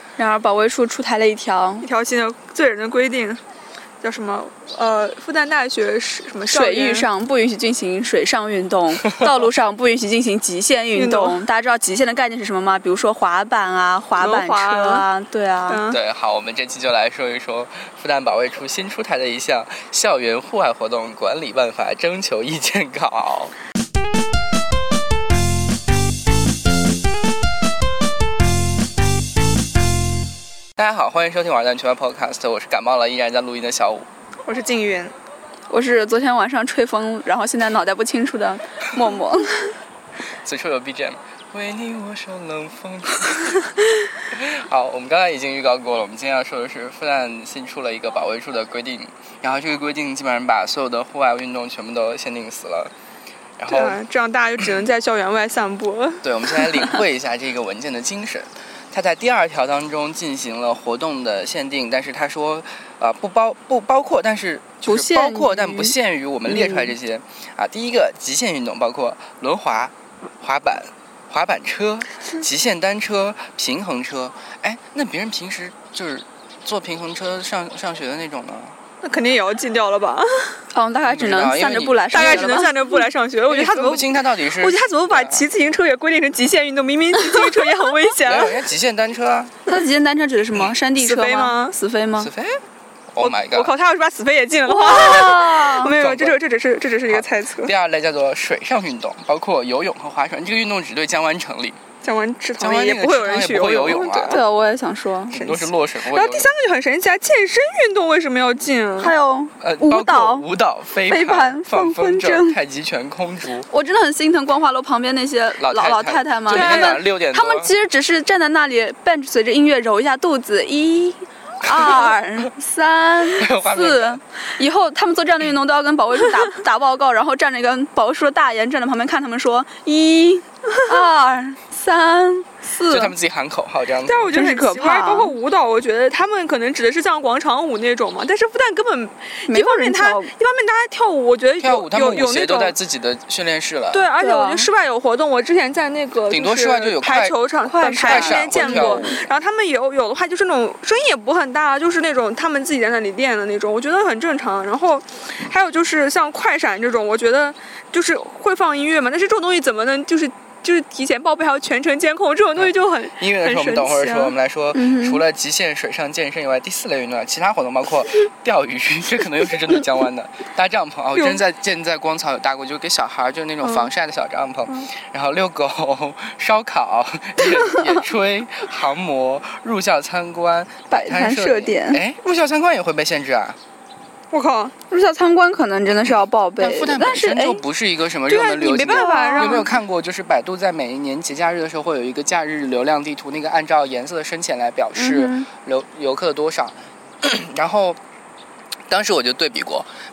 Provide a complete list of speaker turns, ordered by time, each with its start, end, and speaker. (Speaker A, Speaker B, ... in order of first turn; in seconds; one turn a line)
Speaker A: 0.2-1.9
Speaker B: 1.8-3.4
Speaker B: 4.0-7.1
Speaker A: 6.5-15.8
Speaker B: 10.9-11.4
Speaker B: 14.2-15.1
Speaker B: 15.7-16.0
Speaker C: 15.9-23.5
Speaker C: 30.8-34.1
Speaker B: 34.5-35.1
Speaker A: 35.7-39.7
Speaker C: 40.4-43.7
Speaker C: 44.3-52.9
Speaker C: 53.6-54.0
Speaker B: 53.7-57.0
Speaker C: 56.2-78.8
Speaker A: 64.8-65.9
Speaker A: 66.5-66.9
Speaker B: 79.0-80.6
Speaker A: 80.7-82.8
Speaker C: 81.1-82.5
Speaker B: 82.1-88.7
Speaker C: 83.5-85.5
Speaker C: 88.2-89.6
Speaker A: 89.7-92.3
Speaker B: 91.0-91.8
Speaker C: 92.2-93.7
Speaker B: 93.2-97.7
Speaker A: 94.7-95.9
Speaker C: 95.9-96.4
Speaker C: 97.1-101.8
Speaker B: 102.0-104.4
Speaker C: 102.6-104.4
Speaker A: 104.3-105.3
Speaker C: 105.3-106.5
Speaker B: 105.3-109.1
Speaker A: 109.0-110.5
Speaker C: 109.6-113.7
Speaker A: 111.0-112.6
Speaker A: 113.7-133.1
Speaker C: 115.6-117.7
Speaker B: 116.5-117.0
Speaker C: 121.6-122.1
Speaker C: 123.3-124.2
Speaker C: 132.9-134.3
Speaker B: 134.0-142.8
Speaker A: 134.3-135.3
Speaker A: 139.5-140.3
Speaker C: 141.6-144.1
Speaker B: 143.9-164.3
Speaker A: 144.2-144.7
Speaker C: 146.3-147.3
Speaker A: 147.7-149.2
Speaker C: 148.0-149.1
Speaker C: 162.6-183.6
Speaker A: 164.7-165.2
Speaker B: 171.1-171.4
Speaker B: 173.6-173.9
Speaker A: 180.9-182.0
Speaker B: 184.3-184.8
Speaker A: 184.9-187.6
Speaker C: 186.6-198.0
Speaker B: 188.2-189.7
Speaker A: 188.9-189.7
Speaker A: 194.9-195.5
Speaker C: 198.9-199.9